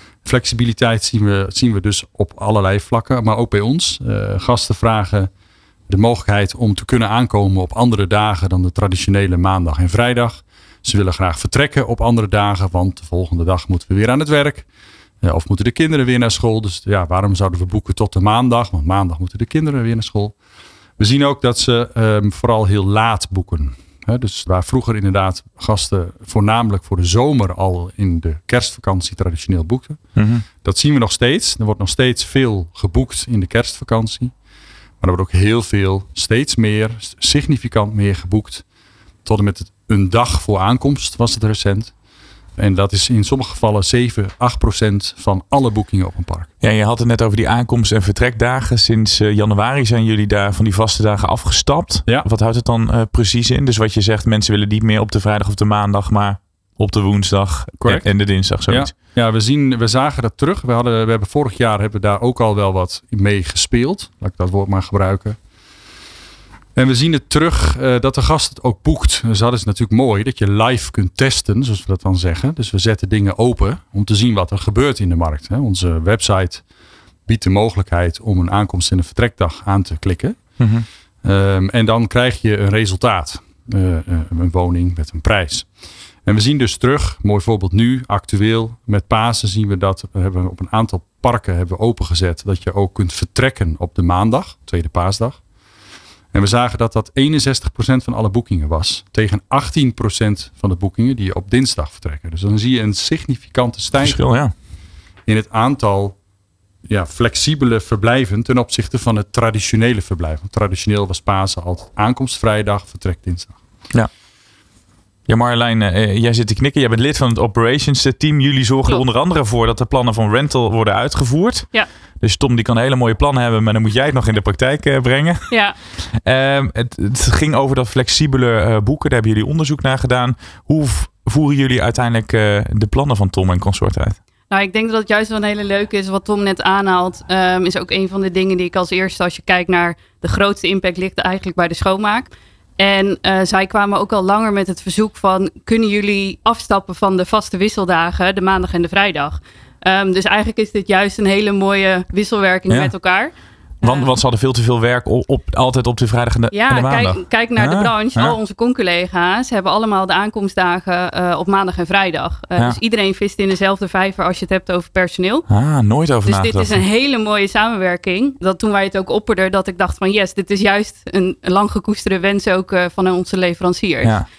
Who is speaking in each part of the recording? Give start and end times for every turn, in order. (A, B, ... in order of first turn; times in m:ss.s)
0:00.2-0:05.3 A
0:05.9-0:14.6 A
0:15.2-0:20.3 A
0:21.0-0:30.0 A
0:30.2-0:30.4 B
0:30.6-0:34.3 A
0:35.0-0:38.6 A
0:39.2-0:41.9 A
0:42.6-0:46.5 A
0:46.6-0:58.9 B
0:57.8-0:58.1 A
0:58.6-1:05.4 A
1:06.8-1:16.6 A
1:17.3-1:20.4 A
1:20.6-1:20.8 B
1:21.2-1:25.7 A
1:26.2-1:35.4 A
1:36.3-1:44.2 A
1:44.0-1:44.5 B
1:45.2-1:46.2 A
1:46.9-1:53.6 A
1:55.3-2:01.7 B
2:02.2-2:05.5 B
2:05.5-2:05.8 C
2:06.2-2:14.2 B
2:14.5-2:34.1 C
2:33.8-2:38.4 B
2:36.5-2:45.4 C
2:45.5-2:46.8 B
2:46.2-2:54.2 C